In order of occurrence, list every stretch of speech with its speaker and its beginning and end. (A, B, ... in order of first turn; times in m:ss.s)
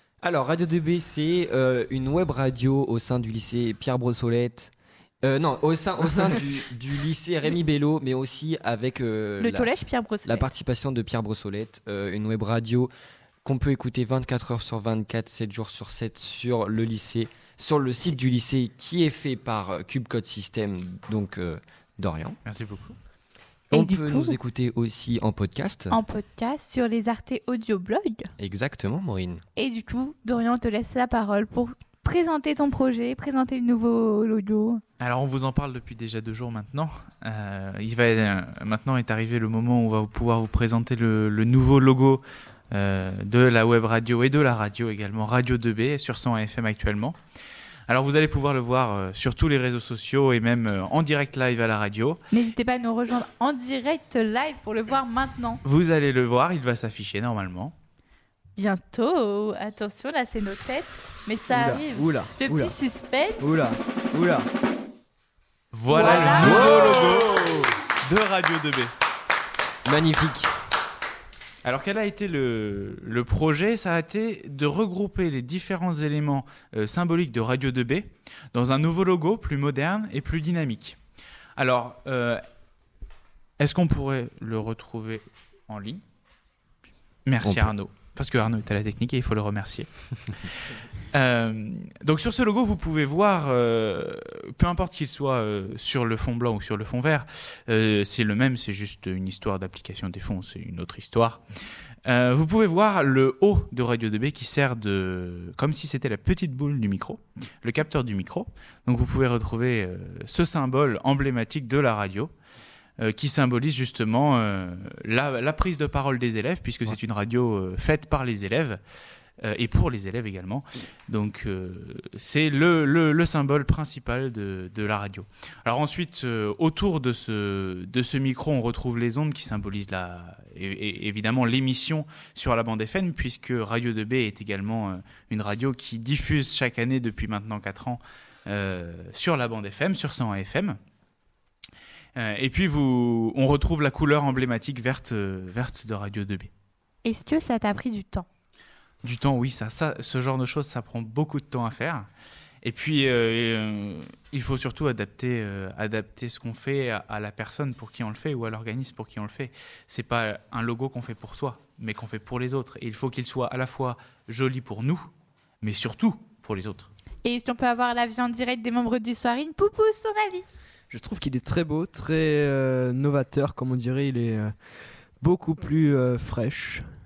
0:00.2-0:09.7 A
0:09.4-0:10.5 B
0:10.2-0:12.9 A
0:13.4-0:22.4 A
0:22.4-0:23.0 C
0:23.7-0:26.0 A
0:23.7-0:24.4 B
0:25.9-0:28.3 B
0:28.4-0:29.4 A
0:29.6-0:34.8 B
0:35.0-0:47.2 C
0:47.9-0:52.2 C
0:52.3-0:55.6 B
0:55.6-0:57.7 C
0:58.6-1:03.6 B
1:01.5-1:02.8 D
1:03.4-1:04.5 D
1:05.7-1:08.9 C
1:05.9-1:06.9 B
1:06.2-1:07.7 A
1:09.8-1:10.5 A
1:11.6-1:21.0 C
1:21.6-1:22.4 C
1:23.6-1:26.0 C
1:27.2-1:29.9 C
1:27.4-1:27.7 A
1:31.1-1:41.4 C
1:42.1-1:52.3 C
1:53.0-1:58.8 C
1:59.4-2:20.8 C
2:22.2-2:26.5 C
2:27.0-2:28.3 B
2:29.0-2:32.1 C
2:32.6-2:45.1 C
2:45.6-2:46.9 C
2:47.2-2:50.5 B
2:50.9-2:56.9 D